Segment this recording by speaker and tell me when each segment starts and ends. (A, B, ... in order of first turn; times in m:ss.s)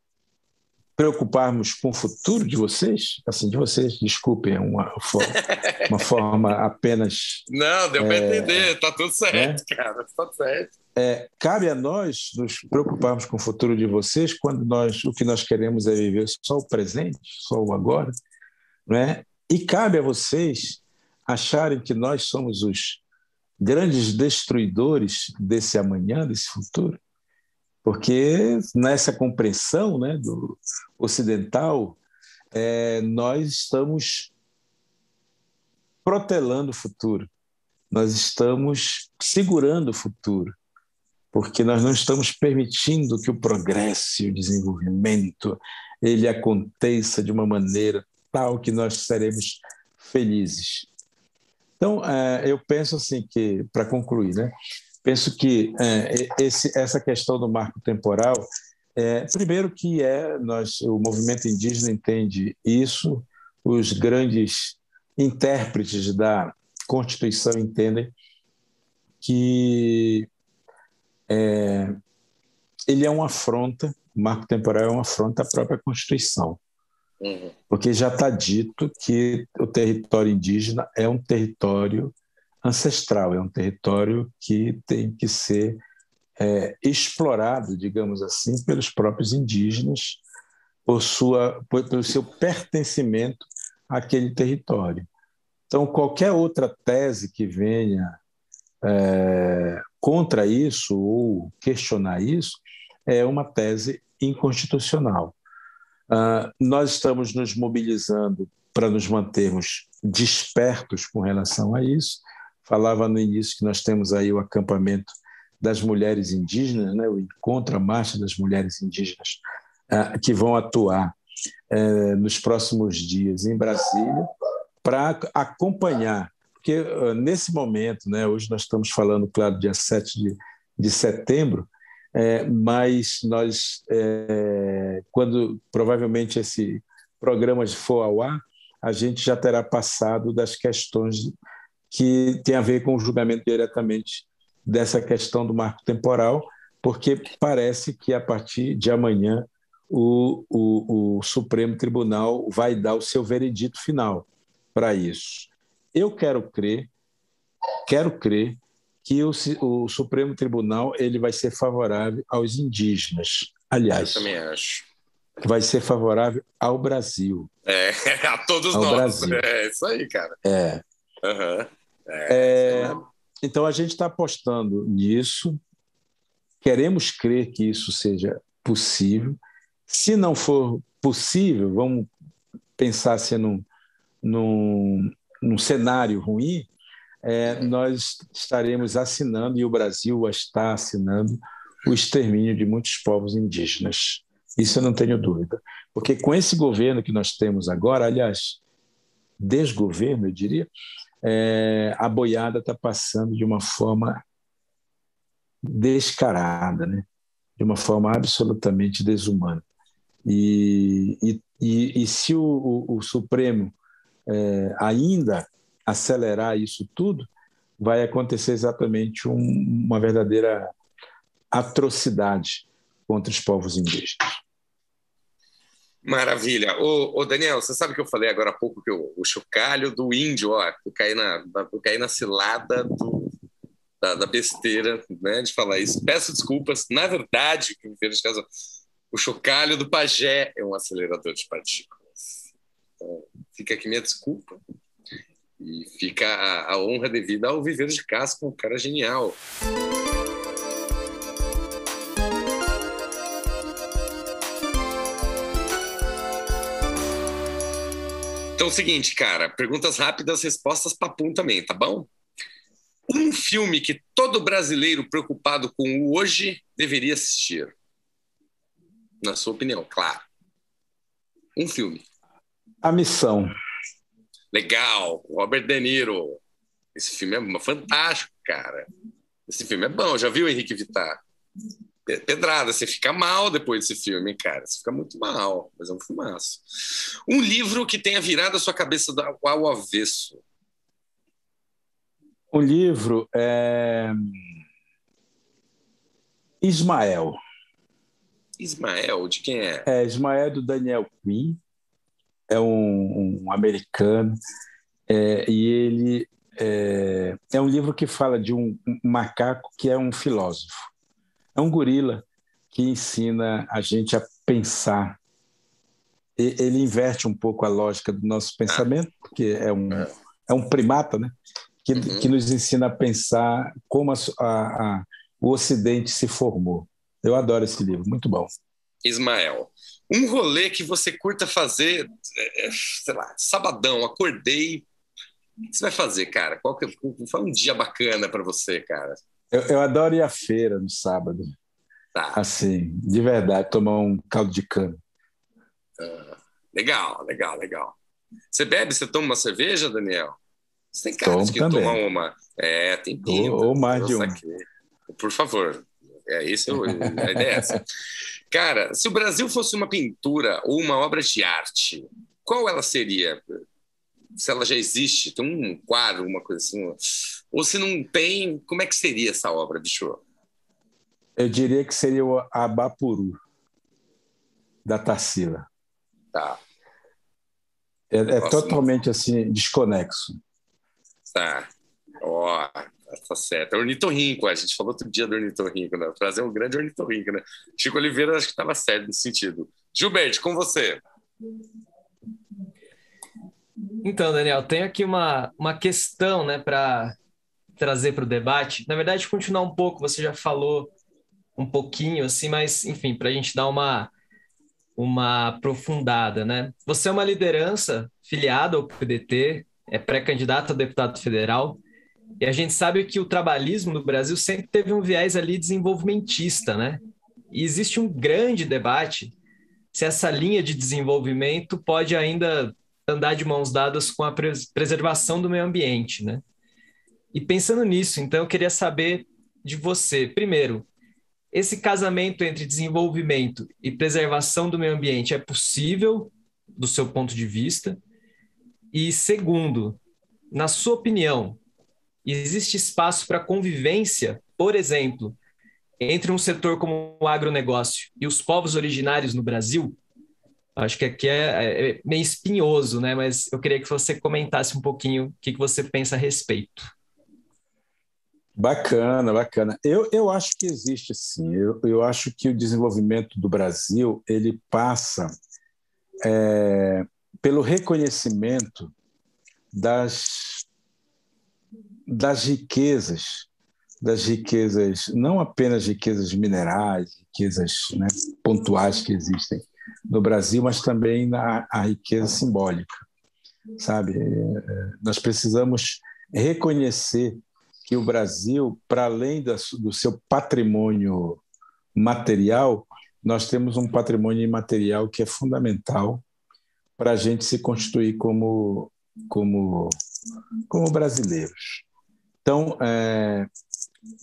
0:01.0-0:05.4 A
0:05.3-0:06.0 B
0:05.9-0:07.4 A
0:07.5-0:10.7 B
0:08.0-0:08.7 A
0:09.3-0:09.6 A
0:11.0-0:18.1 A
0:18.9-0:23.0 A
0:23.6-0:27.0 A
0:27.8-0:32.0 A
0:32.5-0:34.3 A
0:36.0-0:37.3 A
0:37.9-0:40.6 A
0:41.3-0:50.9 A
0:51.8-0:54.5 A
0:55.0-1:08.1 A
1:09.2-1:10.3 A
1:11.3-1:12.0 A
1:12.9-1:16.6 A
1:17.2-1:17.5 B
1:17.7-1:25.8 A
1:26.4-1:30.2 A
1:30.9-1:35.1 A
1:35.7-1:38.2 A
1:38.8-1:45.4 A
1:46.1-2:01.1 A
2:01.7-2:04.3 A
2:04.8-2:21.3 A
2:21.9-2:36.9 A
2:37.9-2:44.3 A
2:44.0-2:44.9 B
2:45.4-2:47.5 A
2:47.7-2:50.4 B
2:48.7-2:49.4 A
2:50.4-2:50.8 A
2:51.2-2:53.0 B
2:52.3-2:55.6 A
2:56.6-3:02.1 A
3:02.8-3:03.7 A
3:04.2-3:06.7 A
3:07.2-3:18.6 A
3:19.4-3:20.7 A
3:21.2-3:24.2 A
3:25.7-3:27.1 A
3:27.6-3:29.6 A
3:30.2-3:33.8 A
3:34.3-3:40.7 A
3:41.5-3:44.3 A
3:46.0-3:53.3 B
3:54.0-3:58.4 B
3:59.1-4:02.4 B
4:03.0-4:04.6 B
4:05.6-4:09.4 B
4:18.6-4:22.1 B
4:23.1-4:27.7 B
4:29.2-4:30.2 B
4:31.6-4:32.0 B
4:32.8-4:33.5 A
4:34.5-4:36.4 B
4:37.0-4:38.9 B
4:39.5-4:41.2 B
4:42.1-4:50.4 B
4:52.5-4:54.3 A
4:56.6-4:57.4 A
4:58.6-4:59.9 B
4:59.9-5:01.6 A
5:02.5-5:04.4 A
5:05.1-5:10.9 A
5:11.6-5:15.2 A
5:16.4-5:21.3 A
5:21.8-5:28.5 A
5:21.9-5:22.3 B
5:29.0-5:34.9 B
5:35.7-5:39.2 B
5:39.5-5:41.5 A
5:42.4-5:45.0 A
5:46.0-5:48.0 B
5:48.5-5:50.4 B
5:50.9-5:57.8 B
5:51.2-5:52.0 A
5:53.3-5:54.4 A
5:56.9-5:57.8 A
5:58.5-6:03.4 B
6:04.4-6:10.2 B
6:11.4-6:13.4 A
6:14.8-6:15.7 A
6:16.3-6:16.6 B
6:18.1-6:20.4 A
6:18.4-6:18.8 B
6:21.3-6:21.7 B
6:22.2-6:31.0 B
6:34.0-6:37.2 C
6:37.8-6:40.9 C
6:41.6-6:44.1 C
6:45.0-6:51.8 C
6:52.4-6:57.0 C
6:57.5-6:59.3 C
6:59.9-7:06.4 C
7:07.3-7:10.9 C
7:11.5-7:18.0 C
7:18.9-7:20.0 C
7:20.5-7:21.6 C
7:22.2-7:25.4 C
7:26.0-7:30.0 C
7:30.8-7:36.9 C
7:38.6-7:45.3 A
7:46.2-7:48.9 A
7:49.7-7:50.6 A
7:52.1-7:53.5 A
7:54.0-8:03.0 A
8:03.8-8:11.4 A
8:12.0-8:16.2 A
8:17.0-8:19.9 A
8:20.7-8:21.8 A
8:22.4-8:23.5 A